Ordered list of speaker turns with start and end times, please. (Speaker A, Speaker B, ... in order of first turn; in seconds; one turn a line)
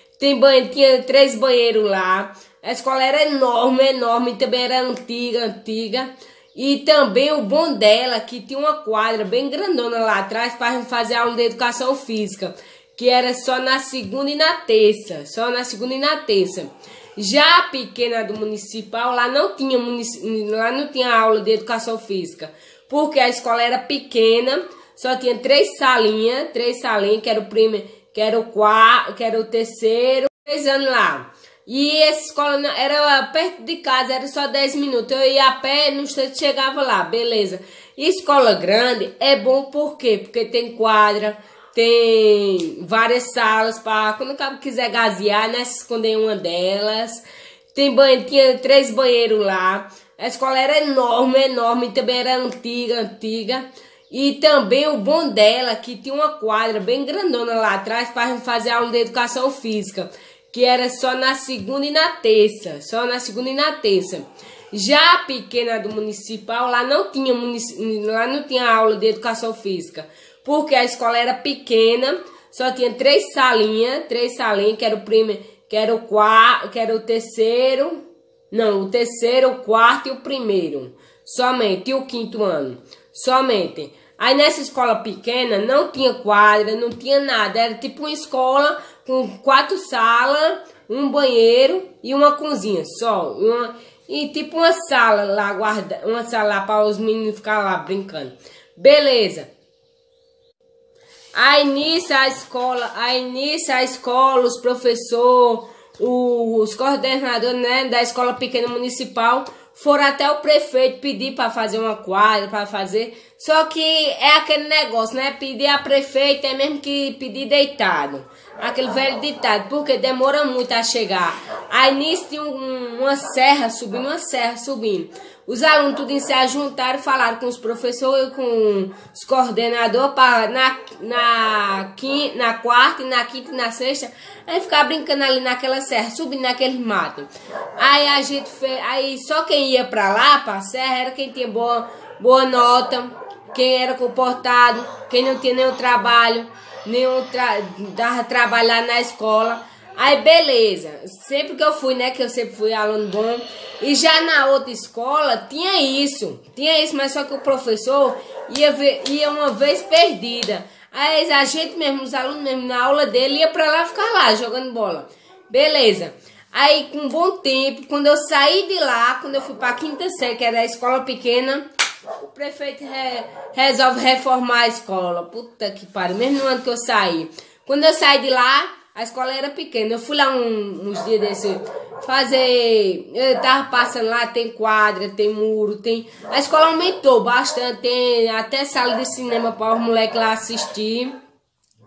Speaker A: 0.2-99.5
Speaker A: 101.3-171.6
Speaker A: 172.2-191.1